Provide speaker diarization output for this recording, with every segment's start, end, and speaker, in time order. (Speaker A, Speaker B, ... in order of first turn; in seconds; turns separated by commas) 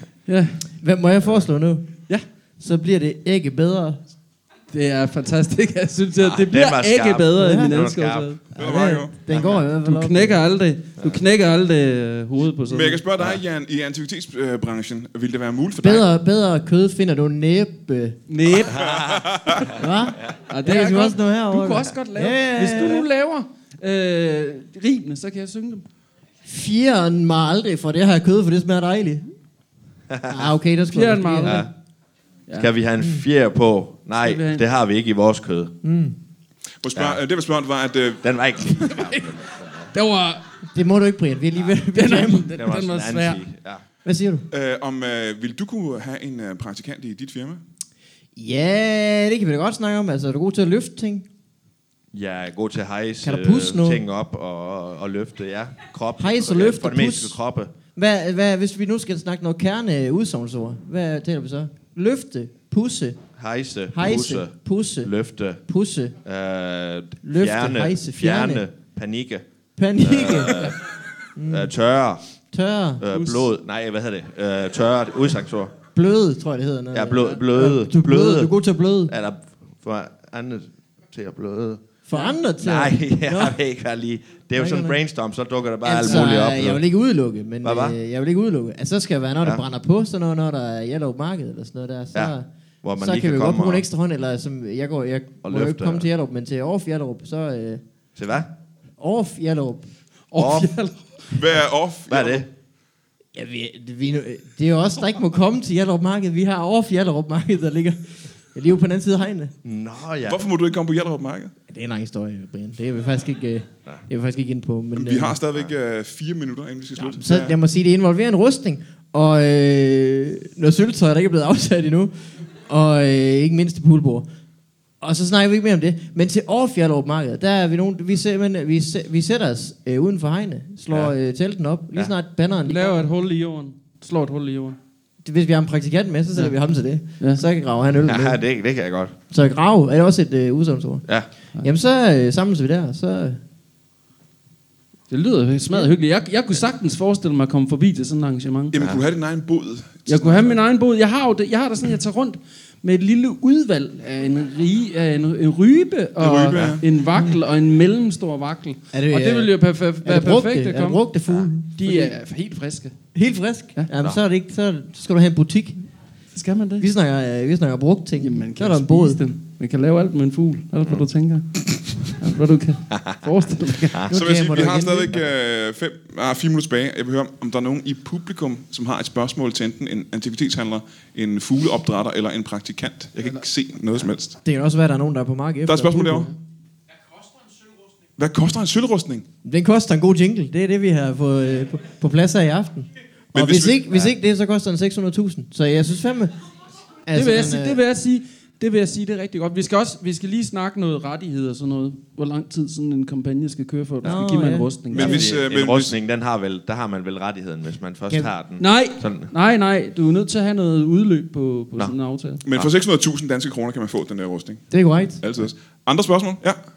Speaker A: 0.3-0.6, Speaker B: 0.8-1.9, Speaker B: 2.6-4.0, Speaker A: 4.7-8.4, Speaker C: 6.2-8.3, Speaker B: 7.3-7.8, Speaker B: 8.5-10.4, Speaker D: 8.6-9.1, Speaker A: 9.3-13.0, Speaker C: 9.3-9.6, Speaker D: 12.7-16.1, Speaker B: 15.8-18.2, Speaker A: 18.3-18.9, Speaker C: 18.7-20.3, Speaker D: 18.7-19.6, Speaker B: 19.7-23.1, Speaker A: 20.5-25.8, Speaker B: 26.4-29.2, Speaker C: 30.1-30.5, Speaker B: 30.3-31.6, Speaker A: 30.9-31.7, Speaker C: 31.4-31.7, Speaker C: 32.5-35.7, Speaker A: 34.2-34.6, Speaker B: 35.8-36.1, Speaker D: 36.8-38.2, Speaker C: 36.9-37.2, Speaker C: 38.2-39.9, Speaker A: 38.9-39.3, Speaker A: 39.9-40.4, Speaker B: 40.7-42.5, Speaker A: 41.9-43.4, Speaker C: 42.5-43.8, Speaker B: 44.0-44.4, Speaker D: 44.5-47.6, Speaker B: 48.4-51.2, Speaker C: 52.1-57.7, Speaker B: 53.2-54.0, Speaker B: 56.2-57.4, Speaker B: 57.9-63.2, Speaker C: 63.4-65.6, Speaker B: 63.9-66.1, Speaker C: 66.2-69.4, Speaker B: 67.2-68.6, Speaker B: 69.8-70.7, Speaker C: 70.0-70.8, Speaker B: 71.3-71.7, Speaker C: 71.5-72.2, Speaker B: 72.5-73.0, Speaker C: 73.0-75.7, Speaker A: 73.1-73.5, Speaker B: 75.9-79.1, Speaker C: 76.9-78.5, Speaker C: 79.0-81.8, Speaker B: 82.1-83.5, Speaker C: 82.6-86.8, Speaker B: 84.5-85.0, Speaker B: 85.8-97.8, Speaker A: 86.0-86.3, Speaker C: 87.6-88.0, Speaker C: 92.1-93.9, Speaker C: 95.4-96.1, Speaker C: 98.2-98.5, Speaker B: 99.0-99.9, Speaker A: 100.3-101.2, Speaker C: 100.3-100.7, Speaker D: 101.3-102.5, Speaker C: 102.1-102.5, Speaker B: 103.3-109.5, Speaker C: 109.6-110.4, Speaker D: 110.2-111.5, Speaker B: 111.7-115.4, Speaker D: 114.9-117.6, Speaker B: 117.0-122.1, Speaker B: 122.7-124.2, Speaker B: 125.0-133.0, Speaker C: 130.9-131.1, Speaker A: 132.6-134.8, Speaker B: 135.2-138.4, Speaker C: 138.0-139.2, Speaker B: 139.3-141.1, Speaker B: 141.6-143.4, Speaker A: 145.1-148.7, Speaker D: 148.7-150.6, Speaker A: 150.1-161.0, Speaker D: 156.2-156.8, Speaker C: 156.5-156.8, Speaker B: 158.9-159.5, Speaker B: 160.0-162.2, Speaker A: 161.8-162.9, Speaker B: 163.1-165.8, Speaker A: 166.3-166.9, Speaker B: 166.8-169.2, Speaker A: 168.2-174.1, Speaker C: 172.9-173.2, Speaker B: 174.0-175.1, Speaker D: 174.1-184.4, Speaker B: 184.4-186.3, Speaker D: 185.7-186.3, Speaker D: 188.2-189.2, Speaker B: 189.4-196.3, Speaker D: 193.3-193.8, Speaker B: 197.1-197.8, Speaker A: 197.1-205.2, Speaker B: 204.0-204.7, Speaker D: 204.9-205.9, Speaker C: 204.9-209.3, Speaker A: 208.6-212.4, Speaker D: 212.4-214.7, Speaker B: 214.7-215.2, Speaker D: 215.2-216.6